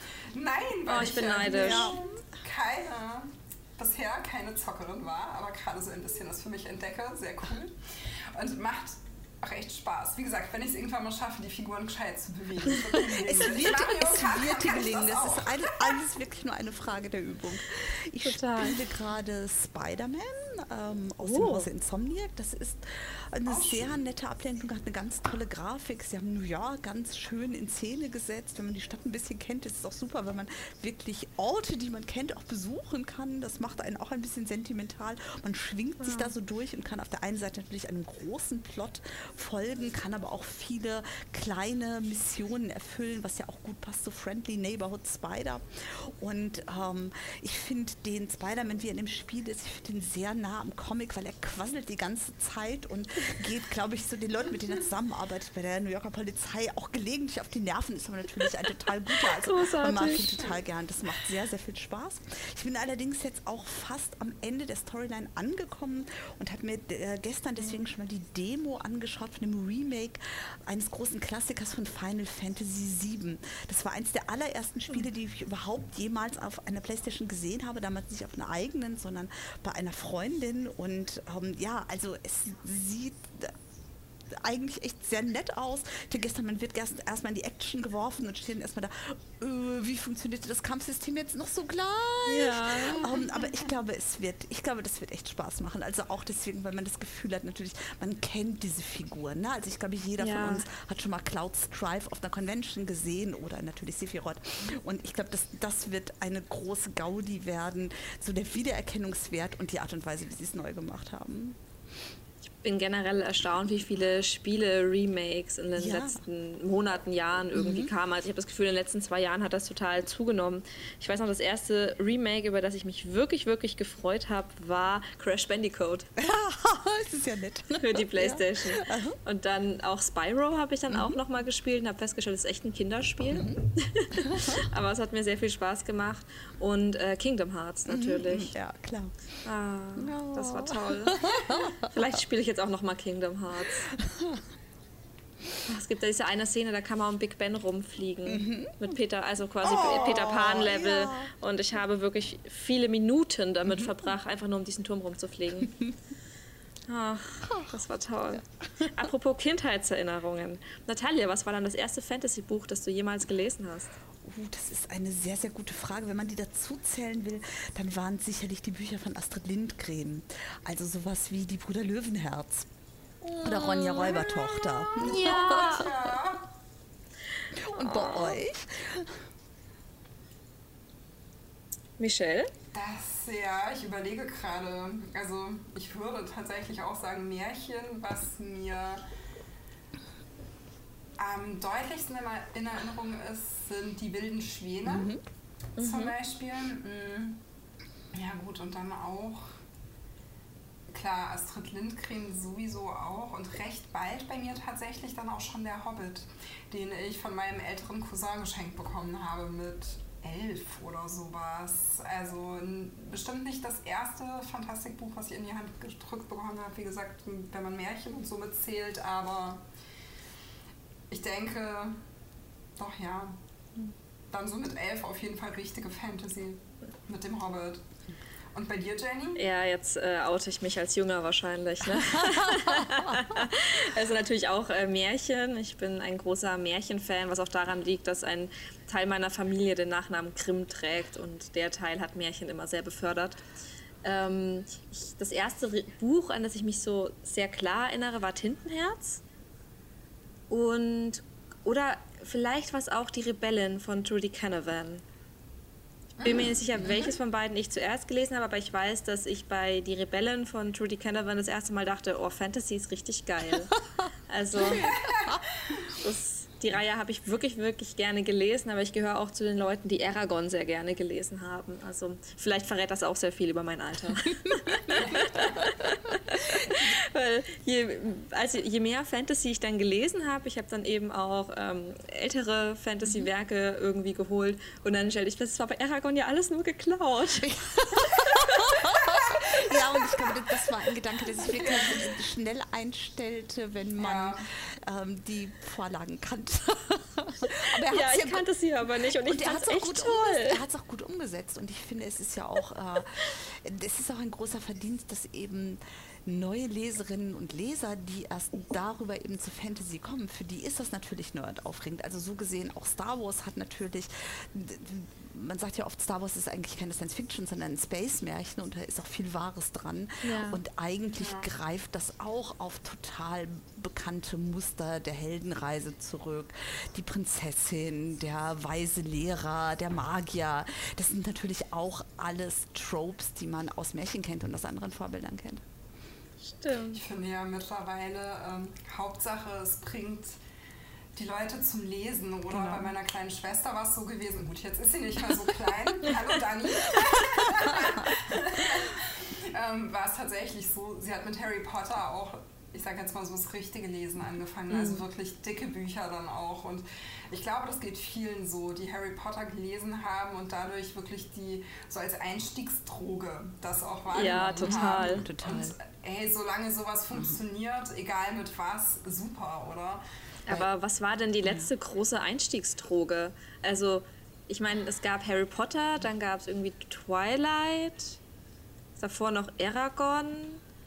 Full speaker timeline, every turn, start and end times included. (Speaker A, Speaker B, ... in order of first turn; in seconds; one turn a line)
Speaker A: 0.3-7.8
Speaker B: 0.9-2.0
Speaker C: 1.5-2.0
Speaker A: 8.3-16.0
Speaker C: 12.9-83.5
Speaker B: 18.2-18.8
Speaker B: 21.2-21.7
Speaker A: 23.5-23.9
Speaker B: 59.1-60.4
Speaker C: 84.3-111.6
Speaker B: 92.3-93.2
Speaker B: 100.2-100.7
Speaker B: 112.5-126.1
Speaker C: 115.8-116.2
Speaker C: 117.5-117.9
Speaker C: 126.2-129.2
Speaker B: 127.8-138.5
Speaker C: 130.9-131.2
Speaker C: 133.3-134.6
Speaker C: 137.9-139.4
Speaker B: 139.4-143.9
Speaker C: 140.0-141.9
Speaker C: 143.9-144.4
Speaker B: 145.7-155.8
Speaker C: 148.3-148.8
Speaker C: 149.6-151.3
Speaker B: 156.9-163.9
Speaker C: 164.2-172.7
Speaker B: 173.2-175.9
Speaker C: 173.4-175.9
Speaker A: 175.1-176.5
Speaker C: 177.5-179.2
Speaker B: 177.8-178.4
Speaker B: 182.0-182.5
Speaker A: 182.7-189.0
Speaker A: 191.2-195.1
Speaker C: 194.8-195.2
Speaker B: 195.8-196.1
Speaker A: 195.8-197.4
Speaker A: 198.1-199.6
Speaker A: 200.9-219.7
Speaker A: 221.1-222.0
Speaker A: 222.8-223.4
Speaker A: 224.3-227.8
Speaker A: 228.5-229.4
Speaker B: 229.4-243.4
Speaker C: 232.0-233.2
Speaker B: 244.0-249.2
Speaker B: 250.5-255.0
Speaker A: 256.2-256.6
Speaker B: 256.2-263.8
Speaker B: 264.3-265.0
Speaker A: 264.7-265.8
Speaker C: 265.1-265.4
Speaker B: 265.9-288.9
Speaker C: 276.6-276.9
Speaker C: 287.4-298.5
Speaker A: 291.5-292.1
Speaker A: 294.0-294.4
Speaker B: 297.5-300.6
Speaker C: 299.0-335.6
Speaker B: 320.2-320.6
Speaker A: 321.2-321.4
Speaker B: 336.4-337.0
Speaker A: 336.9-340.4
Speaker A: 341.2-370.0
Speaker C: 342.5-342.9
Speaker B: 354.7-355.0
Speaker B: 364.1-365.2
Speaker C: 364.6-365.8
Speaker C: 367.1-367.4
Speaker B: 370.5-378.2
Speaker C: 371.4-371.7
Speaker B: 379.0-380.6